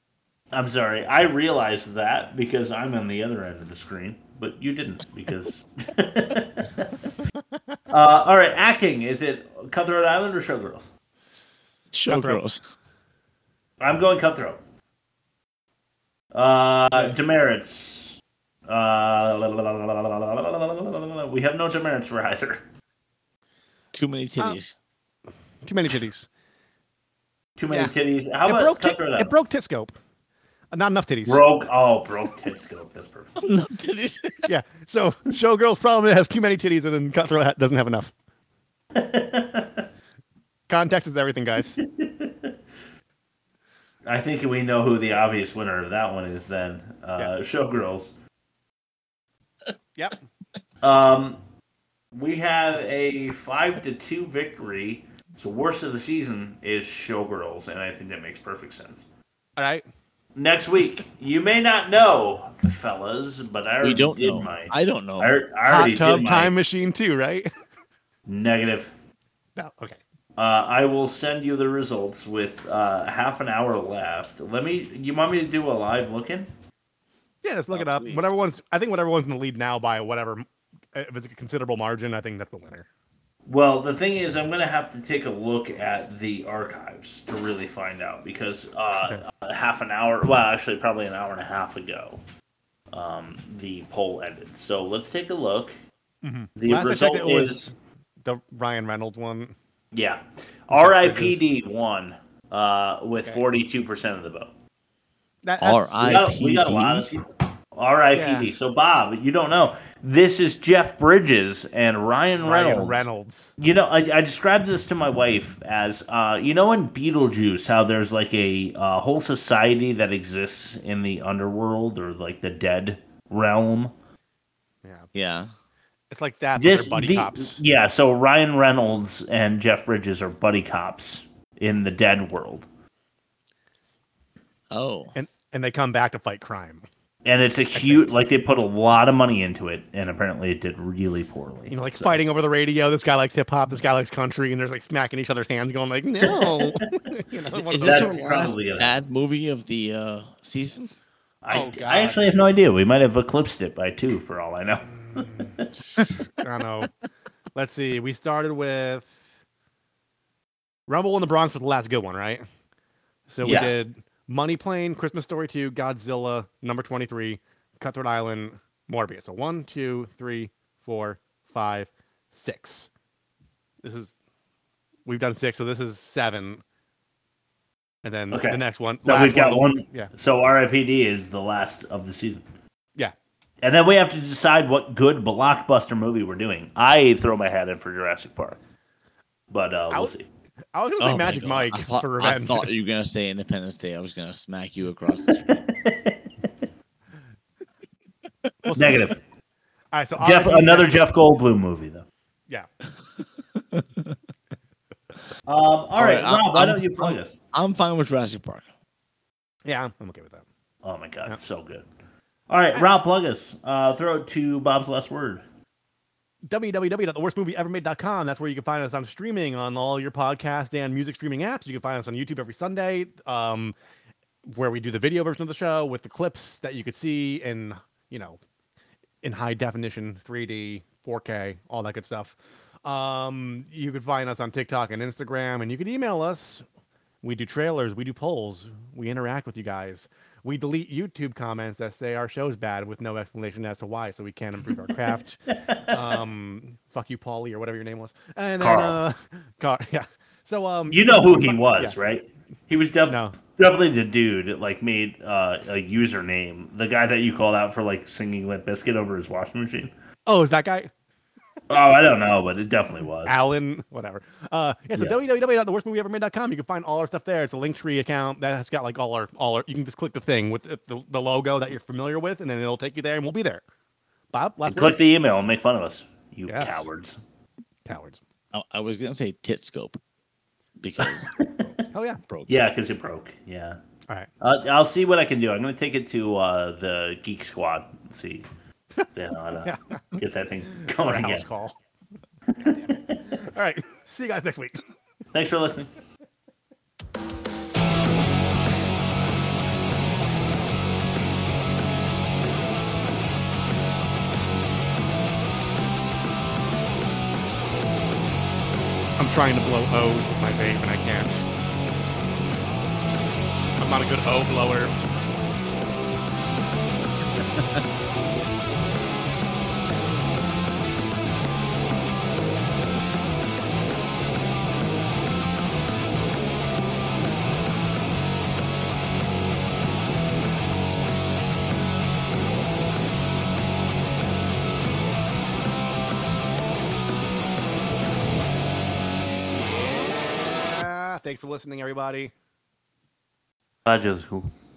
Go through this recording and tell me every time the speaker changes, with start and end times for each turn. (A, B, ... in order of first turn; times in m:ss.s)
0:00.5-0:07.2 A
0:07.9-0:10.9 A
0:11.9-0:12.6 B
0:12.0-0:12.4 C
0:13.8-0:14.6 A
0:16.3-0:22.6 A
0:23.9-0:24.7 B
0:25.6-0:26.3 C
0:27.6-0:29.3 A
0:28.4-0:29.9 C
0:30.7-0:31.4 C
0:31.2-0:33.3 A
0:33.4-0:34.5 B
0:34.4-0:38.1 C
0:38.9-0:39.8 A
0:40.7-0:41.8 C
0:41.8-0:42.6 A
0:44.0-0:48.1 A
0:50.0-0:50.2 C
0:50.8-0:51.4 A
0:52.1-0:59.0 A
0:59.6-0:59.8 C
1:00.4-1:06.6 A
1:03.8-1:05.3 B
1:05.6-1:07.5 C
1:08.3-1:08.9 A
1:09.6-1:10.0 C
1:10.4-1:16.5 A
1:17.4-1:22.9 C
1:17.7-1:18.3 B
1:23.4-1:32.2 A
1:32.9-1:35.8 A
1:36.2-1:39.5 C
1:36.6-1:37.7 A
1:39.9-1:44.5 A
1:40.7-1:41.4 C
1:45.4-1:46.2 C
1:45.6-1:47.1 B
1:46.0-2:03.9 A
1:48.1-1:48.5 C
1:52.4-1:53.5 C
2:04.8-2:05.1 C
2:05.1-2:05.5 B
2:06.1-2:07.6 C
2:06.6-2:12.7 A
2:14.7-2:15.1 B
2:15.1-2:16.8 C
2:17.2-2:22.2 A
2:17.7-2:18.1 C
2:21.7-2:28.3 C
2:26.2-2:26.9 A
2:27.5-2:30.9 B
2:27.8-2:28.9 A
2:31.4-2:35.4 A
2:31.5-2:32.3 C
2:34.9-2:36.9 C
2:37.5-2:39.2 C
2:40.9-2:42.4 C
2:43.3-2:52.9 C
2:43.4-2:43.8 A
2:53.8-2:54.2 C
2:55.0-2:56.6 C
2:58.0-3:00.1 C
2:58.3-3:02.4 A
3:03.6-3:08.6 A
3:09.5-3:10.2 A
3:10.7-3:12.7 C
3:11.0-3:15.4 B
3:15.3-3:16.5 A
3:18.6-3:19.1 C
3:18.7-3:19.2 A
3:19.9-3:21.0 C
3:20.2-3:22.0 A
3:23.6-3:24.1 B
3:25.4-3:27.3 A
3:26.0-3:28.7 B
3:29.6-3:30.4 C
3:30.8-3:31.8 A
3:32.5-3:35.4 A
3:36.4-3:43.7 C
3:44.4-3:48.4 C
3:49.2-3:56.6 C
3:57.2-4:12.0 C
4:05.5-4:06.2 A
4:08.6-4:09.0 A
4:10.9-4:19.9 A
4:13.1-4:13.4 C
4:20.2-4:20.9 C
4:21.7-4:23.4 A
4:23.2-4:33.6 C
4:34.3-4:35.0 C
4:34.7-4:37.2 A
4:36.5-4:36.9 C
4:37.8-4:38.2 C
4:38.5-4:40.0 B
4:40.8-4:41.5 B
4:41.9-4:42.2 C
4:42.2-4:42.6 B
4:42.5-4:43.8 A
4:44.4-4:48.5 A
4:49.1-4:51.4 A
4:49.6-4:50.0 C
4:50.7-4:51.8 C
4:52.5-4:53.2 A
4:52.6-4:54.8 C
4:55.3-4:55.9 A
5:09.2-5:11.4 C
5:13.8-5:14.9 C
5:40.4-5:42.3 C
5:43.8-5:44.5 A